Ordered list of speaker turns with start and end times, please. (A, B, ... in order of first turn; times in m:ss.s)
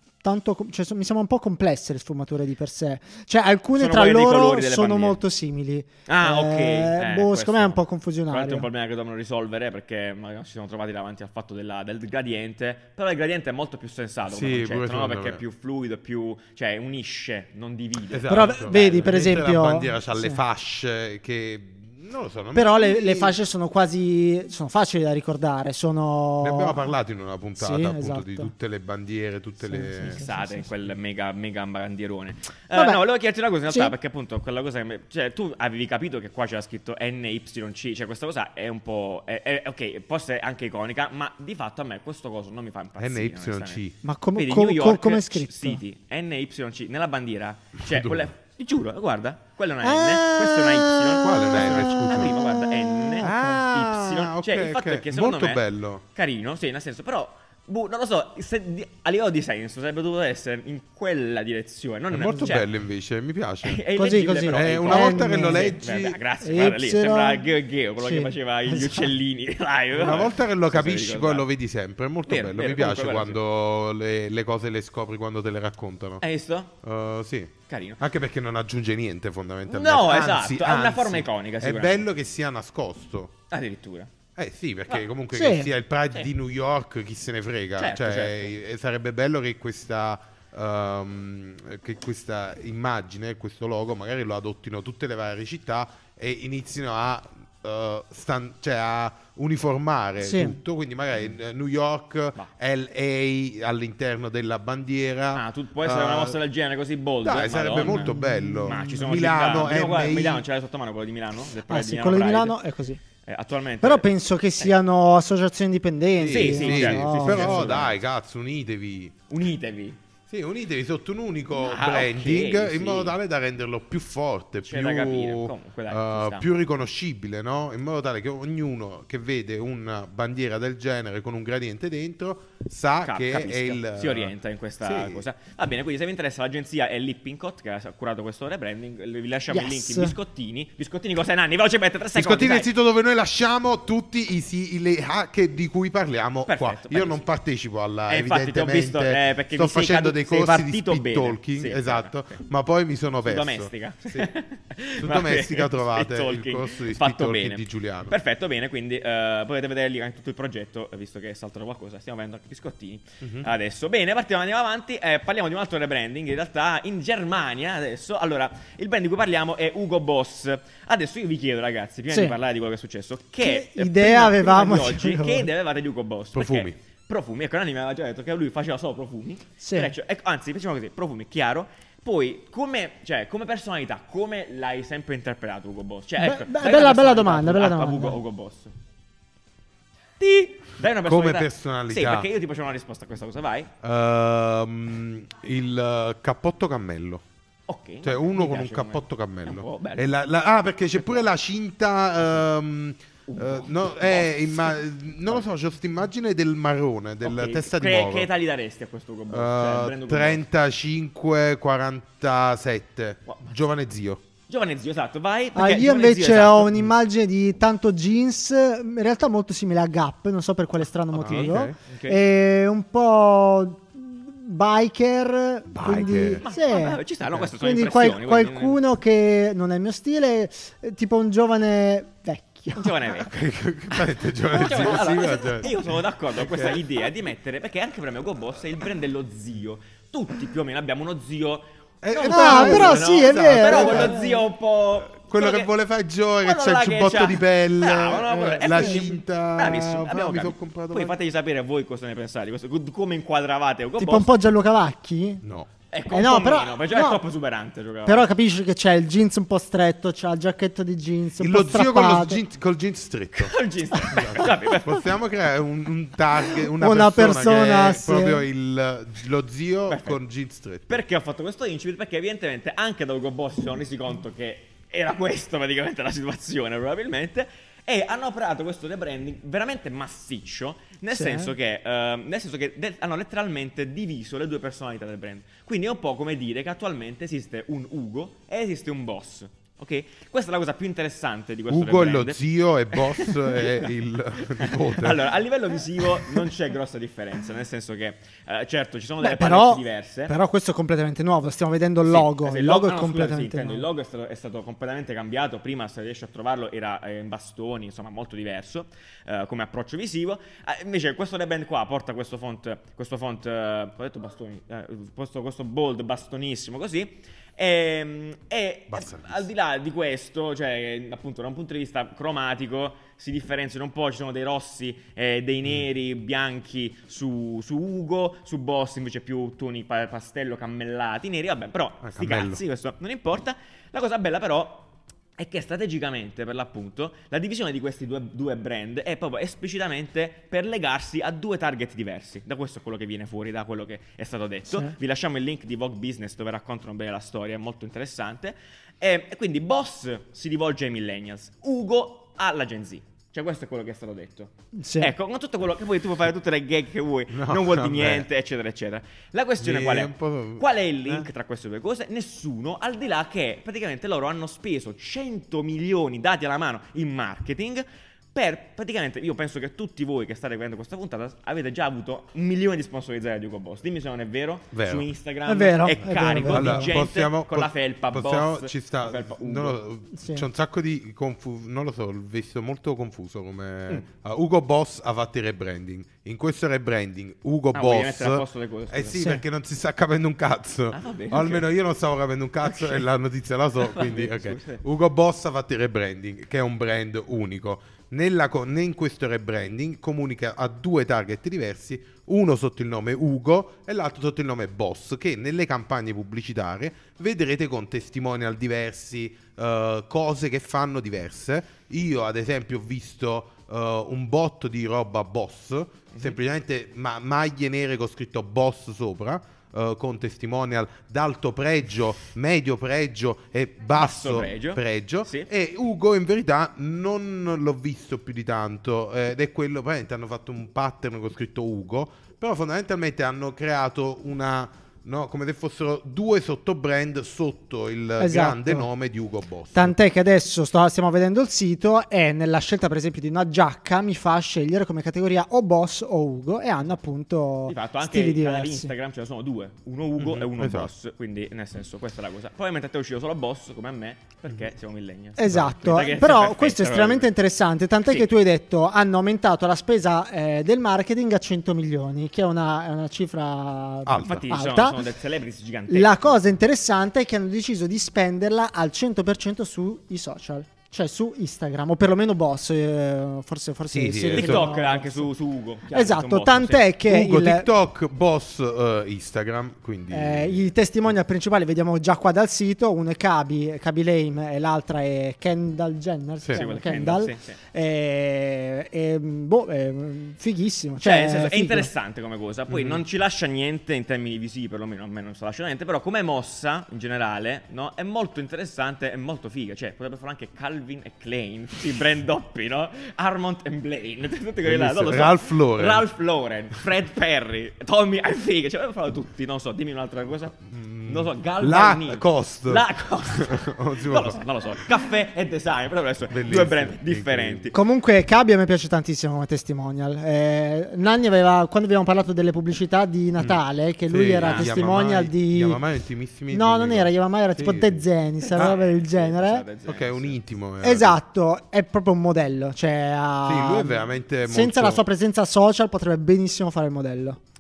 0:00.2-0:08.7 A
0:03.8-0:05.2 B
0:06.1-0:19.2 B
0:14.3-0:15.4 C
0:18.1-0:23.4 C
0:18.3-0:20.4 A
0:22.6-0:26.9 A
0:26.4-0:30.2 C
0:27.6-0:28.5 A
0:29.7-0:30.7 A
0:30.0-0:43.8 B
0:32.7-0:33.0 A
0:43.0-0:44.0 C
0:44.0-0:45.8 A
0:44.4-1:02.7 B
0:47.8-0:48.3 C
0:49.8-0:53.6 A
0:51.2-0:52.4 C
0:53.2-0:56.0 C
1:02.1-1:03.8 C
1:03.6-1:11.5 B
1:04.0-1:05.7 A
1:04.5-1:06.2 C
1:06.4-1:07.5 A
1:08.0-1:09.1 A
1:10.0-1:16.2 C
1:12.3-1:13.4 B
1:16.2-1:16.7 B
1:16.8-1:23.3 C
1:17.7-1:18.0 B
1:19.7-1:22.1 B
1:23.5-1:24.1 B
1:24.4-1:46.4 C
1:25.3-1:25.7 A
1:27.8-1:28.5 B
1:40.2-1:40.6 A
1:45.3-1:52.6 B
1:47.2-1:50.4 C
1:47.8-1:49.0 A
1:51.7-1:53.0 A
1:53.2-1:54.8 B
1:53.8-1:57.8 A
1:56.2-1:59.1 C
1:56.3-1:58.0 B
1:59.3-2:00.0 B
2:00.3-2:15.3 C
2:01.5-2:03.2 B
2:04.6-2:06.5 B
2:13.0-2:22.7 B
2:19.5-2:20.2 A
2:22.2-2:34.3 C
2:26.5-2:27.2 B
2:28.1-2:32.4 B
2:33.2-3:08.7 B
2:35.0-2:38.1 C
2:43.2-2:43.5 C
2:52.1-2:52.4 A
2:53.4-2:55.5 A
2:56.3-2:56.8 C
2:59.6-2:59.9 A
3:06.2-3:08.2 A
3:10.2-3:13.7 B
3:11.0-3:12.3 C
3:13.8-3:17.2 C
3:17.7-3:20.0 B
3:18.0-3:28.3 C
3:23.3-3:25.4 B
3:27.2-3:30.4 B
3:29.3-3:34.2 C
3:33.3-3:33.6 B
3:34.5-3:36.8 B
3:35.6-3:47.0 A
3:41.1-3:41.8 C
3:41.2-3:42.2 B
3:45.7-3:46.4 C
3:46.4-3:48.8 B
3:47.5-3:52.9 A
3:52.7-3:53.3 B
3:53.2-3:55.8 C
3:53.9-4:05.7 B
3:56.4-3:56.8 C
4:02.0-4:04.4 C
4:02.2-4:04.4 A
4:05.1-4:11.1 C
4:06.4-4:14.4 B
4:08.7-4:09.1 A
4:14.0-4:15.4 A
4:15.4-4:15.7 C
4:15.9-4:18.3 B
4:16.1-4:17.2 A
4:18.1-4:22.4 A
4:21.4-4:31.0 C
4:23.4-4:25.1 B
4:26.7-4:28.4 A
4:29.9-4:30.2 B
4:30.9-5:00.3 B
4:41.1-4:41.5 A
4:51.7-4:55.3 C
4:59.2-5:03.9 A
5:02.0-6:19.8 B
5:18.9-5:19.5 C
5:32.0-5:32.6 C
5:54.8-5:55.1 A
5:57.3-5:58.3 C
5:59.6-6:01.3 C
6:14.7-6:15.1 C
6:15.5-6:16.9 A
6:16.4-7:20.0 C
6:20.2-6:20.4 A
6:27.7-6:29.3 B
6:30.9-6:31.7 B
6:32.6-6:33.1 B
6:33.8-6:34.8 B
7:04.0-7:05.5 B
7:18.2-7:18.9 A
7:19.7-7:28.9 A
7:27.7-7:37.3 B
7:30.2-7:30.9 C
7:35.4-7:45.0 A
7:35.5-7:35.8 C
7:44.1-7:44.5 C
7:44.2-7:46.4 B
7:45.9-7:55.3 A
7:53.9-7:54.7 C
7:54.3-7:56.9 B
7:55.9-7:57.7 A
7:57.1-8:00.7 C
8:00.1-8:11.9 A
8:06.5-8:07.6 B
8:11.0-8:37.8 B
8:12.7-8:13.0 C
8:24.6-8:26.0 C
8:30.6-8:34.4 C
8:36.3-8:37.7 C
8:37.7-8:45.8 A
8:43.4-8:48.0 C
8:44.4-8:44.9 B
8:46.5-8:49.6 A
8:48.4-8:50.4 B
8:49.9-8:51.2 C
8:50.8-8:57.4 A
8:53.4-8:55.0 C